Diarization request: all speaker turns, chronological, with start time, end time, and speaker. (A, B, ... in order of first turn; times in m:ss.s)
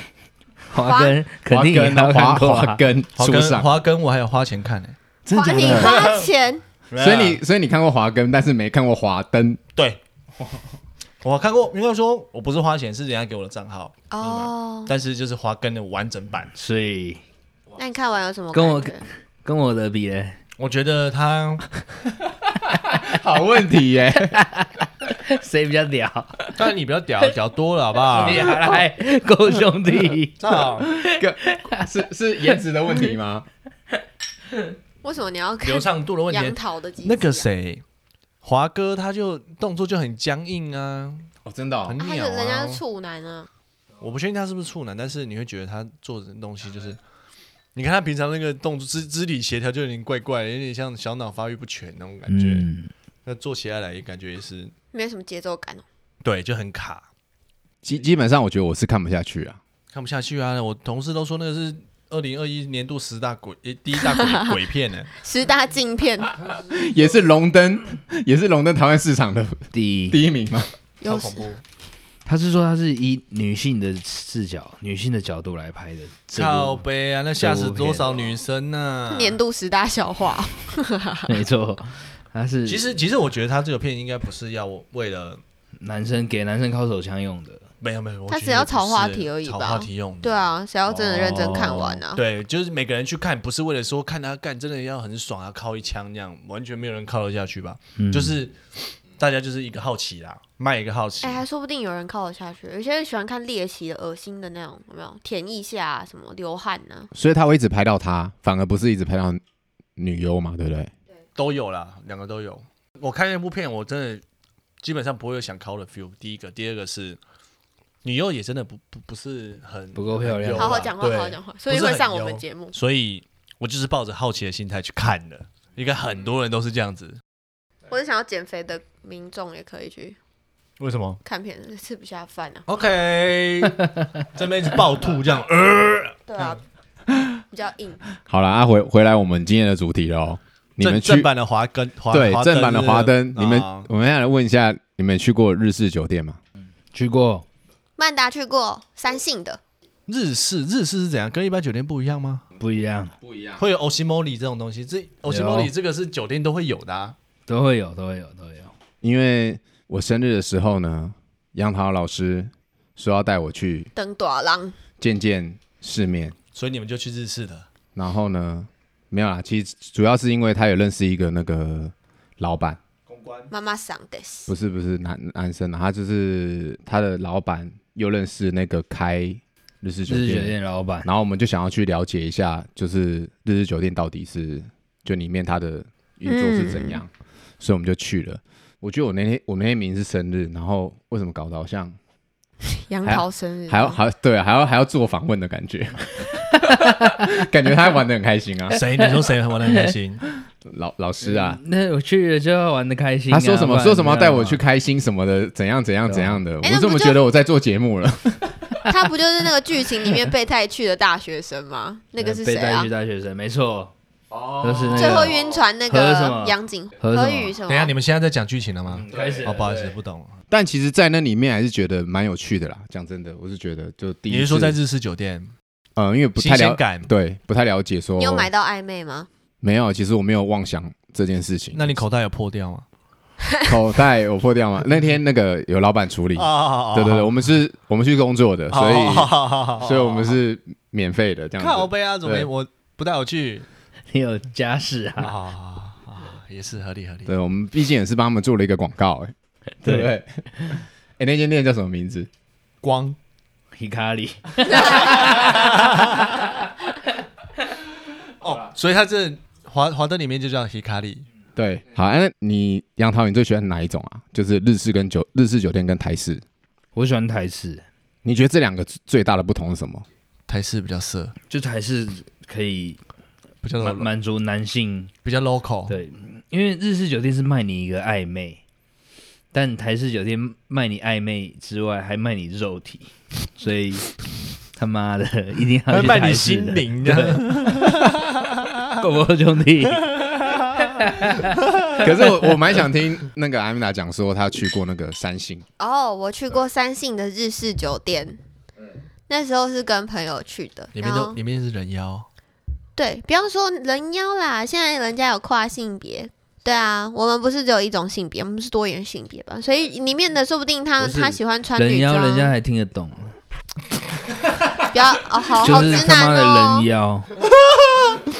0:00.7-0:02.8 A
0:00.8-0:01.2 B
0:01.4-0:03.7 C
0:03.2-0:06.3 D
0:05.2-0:06.1 C
0:05.3-0:06.6 B
0:06.9-0:07.4 D
0:07.0-0:09.6 C
0:11.2-0:16.5 D
0:14.1-0:14.9 B
0:16.5-0:17.2 A
0:17.8-0:19.0 B
0:18.5-0:20.4 A
0:20.6-0:21.7 D
0:22.6-0:24.4 C
0:24.2-0:26.6 A
0:26.6-0:28.6 D
0:28.1-0:31.9 A
0:30.4-0:30.9 D
0:31.0-0:33.5 C
0:35.0-0:37.4 B
0:35.6-0:37.8 D
0:38.4-0:41.3 D
0:41.4-0:42.0 C
0:41.8-0:42.8 D
0:42.0-0:43.5 B
0:44.0-0:47.0 D
0:47.7-0:52.7 D
0:52.3-0:52.9 A
0:53.2-0:54.7 D
0:54.9-0:55.8 B
0:56.2-0:57.0 D
0:57.8-0:59.6 C
0:59.9-1:05.1 D
1:05.2-1:06.4 B
1:06.4-1:10.7 C
1:09.7-1:10.2 A
1:11.0-1:11.5 B
1:11.0-1:11.6 D
1:12.2-1:16.8 A
1:16.3-1:19.4 D
1:17.4-1:18.2 A
1:19.1-1:21.4 B
1:21.3-1:22.9 A
1:22.6-1:25.4 D
1:25.8-1:27.6 A
1:27.8-1:41.4 D
1:28.3-1:32.2 B
1:31.3-1:32.0 A
1:38.0-1:38.4 A
1:41.2-1:47.1 B
1:47.1-1:49.4 C
1:50.0-1:50.9 C
1:51.4-1:54.2 D
1:54.8-1:57.2 D
1:58.0-2:07.2 D
1:59.9-2:00.8 A
2:00.5-2:02.7 B
2:07.9-2:10.2 B
2:10.8-2:11.2 D
2:11.2-2:12.6 B
2:12.7-2:16.6 D
2:16.3-2:16.6 B
2:17.1-2:17.4 C
2:17.5-2:18.0 B
2:18.2-2:21.3 C
2:20.8-2:23.9 D
2:22.1-2:26.4 C
2:26.9-2:27.4 A
2:28.0-2:29.6 B
2:30.1-2:32.4 D
2:32.6-2:33.1 A
2:33.2-2:33.6 C
2:33.6-2:37.2 D
2:35.3-2:35.7 A
2:37.5-2:38.7 A
2:39.0-2:43.9 C
2:44.0-2:44.8 B
2:45.0-2:46.3 C
2:46.5-2:47.7 D
2:48.0-2:52.8 C
2:53.1-2:53.5 D
2:53.5-2:54.5 B
2:54.5-3:11.9 C
3:00.1-3:01.1 A
3:06.2-3:07.0 B
3:12.7-3:14.0 B
3:13.1-3:18.8 C
3:18.7-3:20.2 D
3:20.6-3:21.6 C
3:21.2-3:24.6 A
3:23.3-3:28.8 C
3:26.0-3:26.4 A
3:26.6-3:27.2 B
3:28.9-3:32.9 B
3:32.2-3:33.9 A
3:34.3-3:35.4 C
3:34.6-3:37.6 A
3:34.9-3:37.9 B
3:37.7-3:40.4 D
3:38.9-3:39.7 A
3:39.1-3:39.5 C
3:40.5-3:44.8 C
3:44.3-3:45.5 D
3:46.0-3:48.5 C
3:46.4-3:47.1 D
3:48.2-3:49.3 B
3:49.6-3:52.0 C
3:51.7-3:52.8 D
3:53.7-4:02.5 C
3:56.4-3:57.3 D
3:58.7-4:00.4 D
4:01.6-4:03.6 D
4:04.1-4:05.3 A
4:05.2-4:07.4 D
4:07.3-4:12.3 C
4:09.8-4:10.8 A
4:12.8-4:13.2 D
4:13.7-4:16.5 A
4:14.9-4:15.9 D
4:18.4-4:21.2 D
4:21.6-4:26.4 C
4:26.9-4:27.8 A
4:28.2-4:30.0 C
4:30.5-4:31.3 D
4:31.5-4:33.0 A
4:33.6-4:34.1 D
4:33.8-4:35.1 A
4:35.2-4:35.9 D
4:35.9-4:38.6 A
4:39.5-4:44.1 A
4:44.7-4:48.1 A
4:45.9-4:48.8 D
4:48.9-4:51.6 A
4:50.2-4:50.8 D
4:51.6-4:52.0 D
4:51.9-4:55.6 C
4:55.8-4:58.4 B
4:59.3-5:01.4 B
5:00.9-5:02.3 D
5:03.0-5:12.6 B
5:11.0-5:13.4 A
5:14.9-5:16.9 B
5:15.6-5:17.3 A